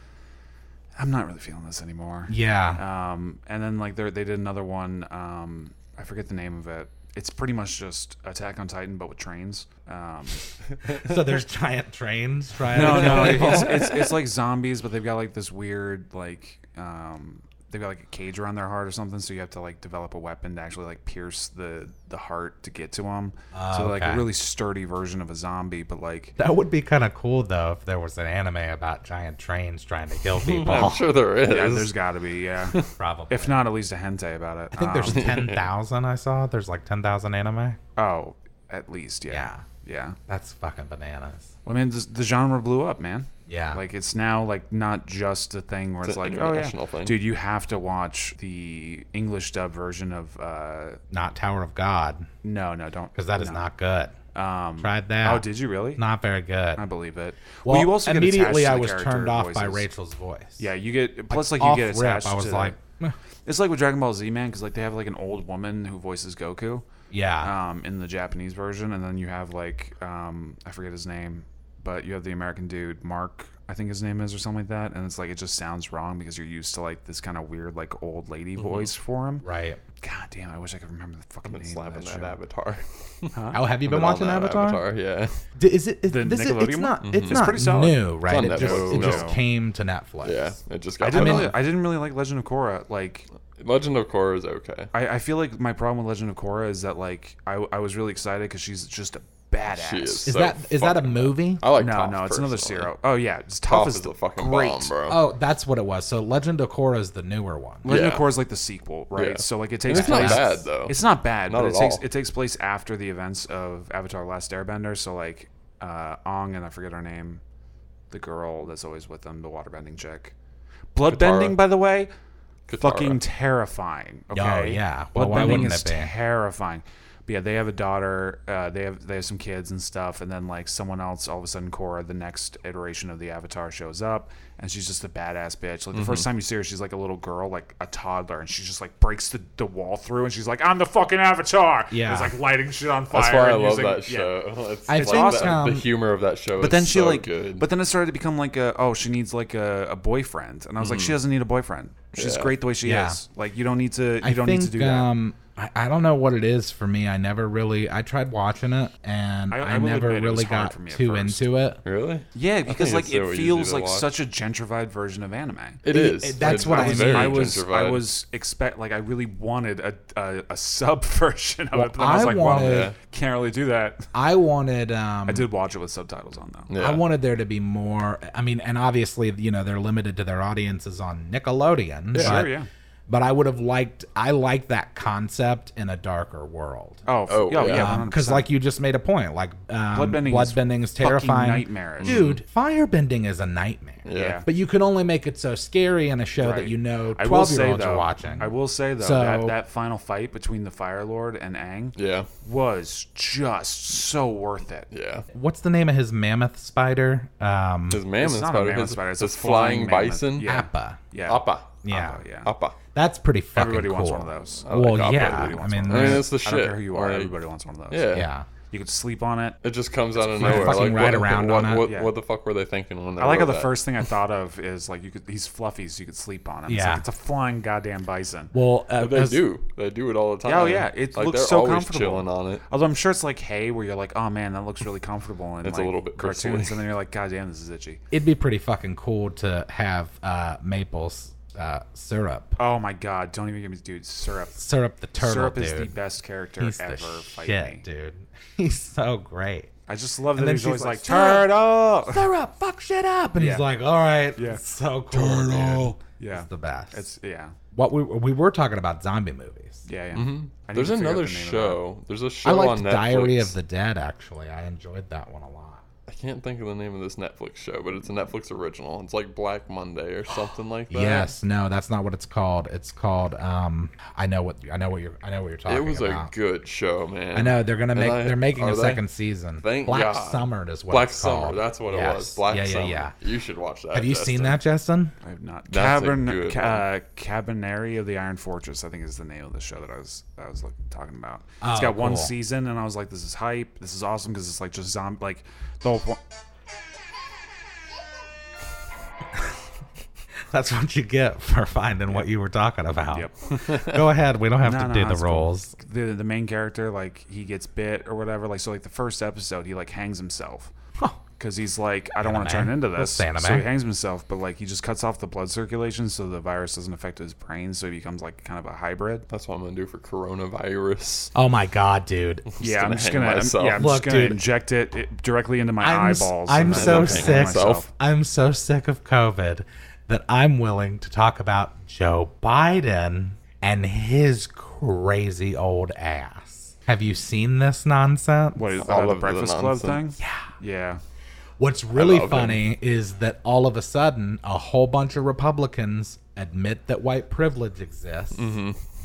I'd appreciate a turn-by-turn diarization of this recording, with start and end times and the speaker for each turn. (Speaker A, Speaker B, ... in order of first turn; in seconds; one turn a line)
Speaker A: 0.9-10.5
Speaker B: 2.3-2.8
Speaker B: 10.9-13.8
Speaker A: 12.7-26.4
Speaker C: 12.8-14.1
Speaker B: 23.5-24.2
Speaker B: 26.4-31.0
Speaker C: 30.3-31.9
Speaker A: 31.4-32.8
Speaker B: 33.0-33.6
Speaker A: 33.3-35.4
Speaker B: 34.7-37.8
Speaker C: 35.0-35.7
Speaker A: 38.0-40.2
Speaker B: 39.3-39.6
Speaker B: 40.3-41.5
Speaker A: 41.6-51.0
Speaker B: 43.5-43.8
Speaker C: 46.0-47.2
Speaker B: 51.1-52.3
Speaker A: 52.4-53.6
Speaker B: 53.1-54.1
Speaker A: 54.3-56.0
Speaker B: 54.8-55.4
Speaker B: 56.0-56.8
Speaker A: 56.8-59.8
Speaker B: 57.6-60.6
Speaker A: 60.6-62.8
Speaker B: 61.3-63.1
Speaker A: 63.5-66.8
Speaker B: 67.1-67.5
Speaker A: 67.4-79.4
Speaker C: 78.6-78.9
Speaker B: 79.4-79.8
Speaker A: 80.0-82.4
Speaker C: 81.5-85.4
Speaker A: 83.3-83.6
Speaker B: 83.5-84.8
Speaker B: 85.5-90.6
Speaker A: 86.1-89.4
Speaker C: 87.0-87.5
Speaker C: 88.3-89.4
Speaker C: 90.2-91.6
Speaker A: 91.0-93.3
Speaker B: 91.1-91.5
Speaker C: 93.5-94.9
Speaker A: 94.9-100.3
Speaker C: 99.7-102.9
Speaker B: 100.2-101.6
Speaker A: 101.7-104.9
Speaker C: 103.7-105.2
Speaker B: 105.1-107.9
Speaker A: 107.8-117.4
Speaker C: 107.8-108.3
Speaker C: 109.1-112.0
Speaker B: 109.9-110.6
Speaker A: 118.1-120.3
Speaker A: 120.9-122.1
Speaker C: 121.1-121.6
Speaker C: 122.7-123.2
Speaker A: 122.8-144.4
Speaker B: 124.3-126.1
Speaker C: 125.4-125.7
Speaker C: 135.9-136.3
Speaker B: 141.9-142.3
Speaker C: 143.1-147.7
Speaker B: 144.9-145.8
Speaker A: 144.9-145.7
Speaker A: 146.6-155.1
Speaker C: 150.8-151.2
Speaker C: 152.1-152.5
Speaker B: 152.8-153.2
Speaker B: 154.2-161.8
Speaker A: 159.5-161.5
Speaker C: 161.8-164.1
Speaker A: 162.3-165.8
Speaker C: 165.8-168.1
Speaker B: 165.9-167.5
Speaker A: 166.4-174.1
Speaker B: 171.7-172.9
Speaker C: 172.4-172.9
Speaker B: 174.1-175.5
Speaker A: 175.3-176.7
Speaker C: 176.7-177.0
Speaker B: 176.8-182.5
Speaker C: 182.1-182.5
Speaker A: 182.1-182.7
Speaker B: 183.1-187.0
Speaker A: 187.1-188.5
Speaker C: 187.3-188.0
Speaker B: 187.6-199.6
Speaker A: 189.9-192.2
Speaker C: 192.0-192.4
Speaker C: 194.0-194.4
Speaker A: 194.1-194.5
Speaker A: 196.4-204.9
Speaker C: 201.9-202.3
Speaker C: 204.9-205.2
Speaker B: 205.3-208.0
Speaker C: 207.9-210.5
Speaker A: 208.2-212.5
Speaker B: 210.4-211.0
Speaker C: 211.2-211.8
Speaker B: 211.8-212.2
Speaker C: 212.4-212.8
Speaker B: 212.9-216.3
Speaker A: 213.6-218.1
Speaker C: 214.6-217.3
Speaker C: 217.9-218.3
Speaker B: 218.1-218.4
Speaker A: 218.7-219.6
Speaker C: 219.6-223.8
Speaker A: 220.2-222.1
Speaker B: 220.4-221.9
Speaker A: 223.2-228.5
Speaker B: 226.7-227.0
Speaker B: 228.5-229.4
Speaker C: 229.0-232.6
Speaker A: 230.4-238.0
Speaker C: 235.6-236.8
Speaker B: 238.1-242.6
Speaker A: 242.6-244.6
Speaker B: 244.6-245.9
Speaker A: 245.2-247.8
Speaker B: 246.6-249.7
Speaker A: 249.9-252.3
Speaker B: 250.3-251.5
Speaker B: 252.1-257.1
Speaker A: 253.4-253.7
Speaker A: 254.3-257.5
Speaker B: 257.7-259.8
Speaker A: 259.9-261.8
Speaker C: 260.1-263.5
Speaker B: 262.4-265.8
Speaker C: 266.1-271.3
Speaker B: 270.9-276.3
Speaker C: 275.7-279.0
Speaker B: 277.3-283.1
Speaker C: 279.6-284.6
Speaker B: 283.9-285.1
Speaker A: 285.2-296.2
Speaker C: 285.7-286.9
Speaker B: 291.6-292.3
Speaker B: 300.5-305.7
Speaker C: 303.6-304.0
Speaker A: 304.6-310.7
Speaker A: 311.4-319.2
Speaker B: 312.2-313.6
Speaker C: 319.3-321.3
Speaker B: 321.3-322.5
Speaker C: 322.6-323.9
Speaker A: 322.6-327.9
Speaker B: 323.8-324.4
Speaker B: 325.8-338.7
Speaker C: 326.6-327.9
Speaker A: 338.5-341.0
Speaker C: 338.8-340.0
Speaker B: 340.2-340.5
Speaker B: 341.6-348.4
Speaker C: 341.9-342.6
Speaker C: 348.3-348.8